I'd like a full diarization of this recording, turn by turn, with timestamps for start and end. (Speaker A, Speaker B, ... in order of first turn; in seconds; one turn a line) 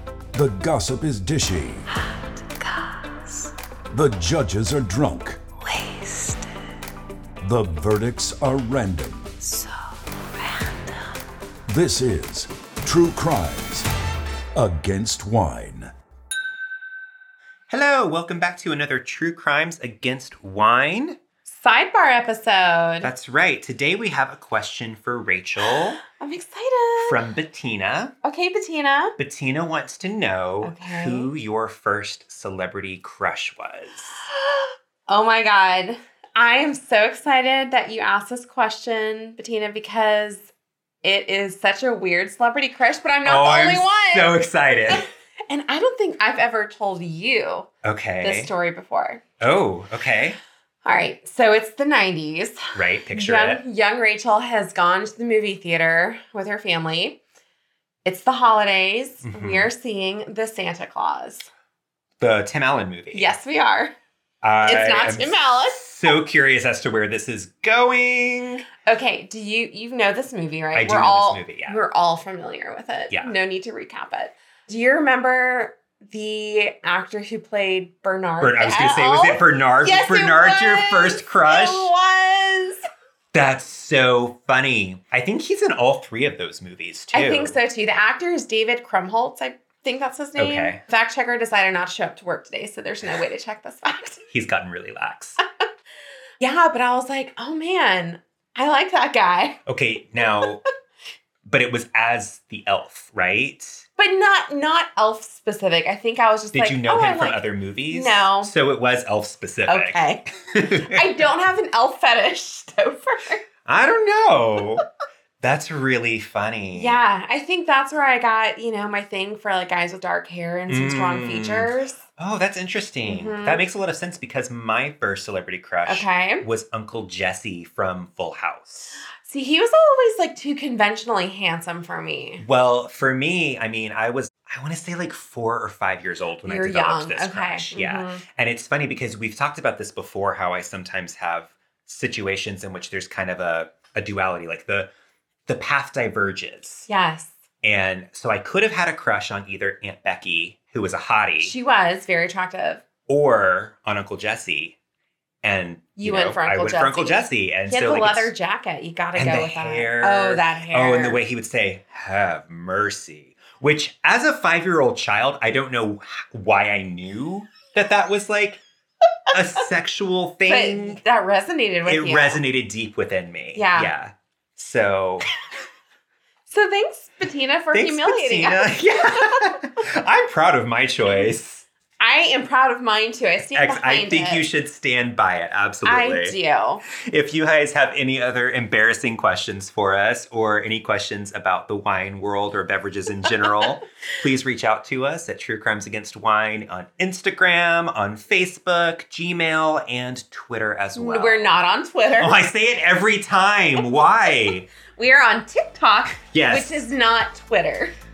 Speaker A: 0.3-1.9
Speaker B: 2.6-3.5
Speaker A: 3.9-5.4
Speaker B: 5.7-6.5
Speaker A: 7.4-9.4
Speaker B: 10.4-10.9
Speaker A: 11.7-13.9
Speaker A: 14.6-15.9
Speaker C: 17.7-21.2
Speaker D: 21.5-23.1
Speaker C: 23.0-26.0
Speaker D: 26.0-27.2
Speaker C: 27.1-28.1
Speaker D: 28.2-29.1
Speaker C: 29.2-34.2
Speaker D: 30.6-31.3
Speaker D: 34.2-40.5
Speaker D: 41.0-44.4
Speaker C: 43.2-45.0
Speaker D: 44.9-47.7
Speaker C: 47.8-48.5
Speaker D: 48.2-49.2
Speaker C: 49.4-50.4
Speaker D: 50.8-52.6
Speaker C: 52.8-53.6
Speaker D: 53.1-57.2
Speaker D: 58.0-61.5
Speaker C: 59.2-59.7
Speaker C: 62.2-63.3
Speaker D: 63.1-63.9
Speaker C: 64.4-68.7
Speaker D: 64.6-66.1
Speaker D: 68.8-82.8
Speaker C: 70.8-71.8
Speaker C: 78.4-81.9
Speaker C: 83.3-87.6
Speaker D: 87.1-94.2
Speaker C: 90.4-90.8
Speaker C: 94.3-95.4
Speaker D: 96.4-99.6
Speaker C: 99.7-100.6
Speaker C: 101.5-103.8
Speaker D: 104.0-108.5
Speaker C: 106.5-111.0
Speaker D: 109.7-113.4
Speaker C: 113.7-114.8
Speaker C: 115.4-117.0
Speaker D: 116.7-122.0
Speaker C: 120.7-129.0
Speaker D: 123.1-123.6
Speaker D: 125.9-126.5
Speaker D: 129.2-132.4
Speaker C: 132.4-144.9
Speaker D: 136.4-138.2
Speaker C: 145.5-146.9
Speaker D: 146.9-147.3
Speaker C: 147.6-151.5
Speaker D: 151.4-152.8
Speaker C: 153.1-154.8
Speaker C: 155.4-158.3
Speaker D: 156.0-161.2
Speaker C: 159.2-168.6
Speaker C: 169.3-171.0
Speaker D: 170.5-172.4
Speaker C: 171.9-175.3
Speaker D: 173.6-173.9
Speaker D: 176.5-179.5
Speaker C: 177.7-181.7
Speaker D: 182.0-184.5
Speaker C: 183.5-186.4
Speaker D: 185.8-186.8
Speaker C: 186.9-201.5
Speaker D: 201.0-202.4
Speaker C: 202.2-204.7
Speaker D: 204.9-207.9
Speaker C: 206.3-206.8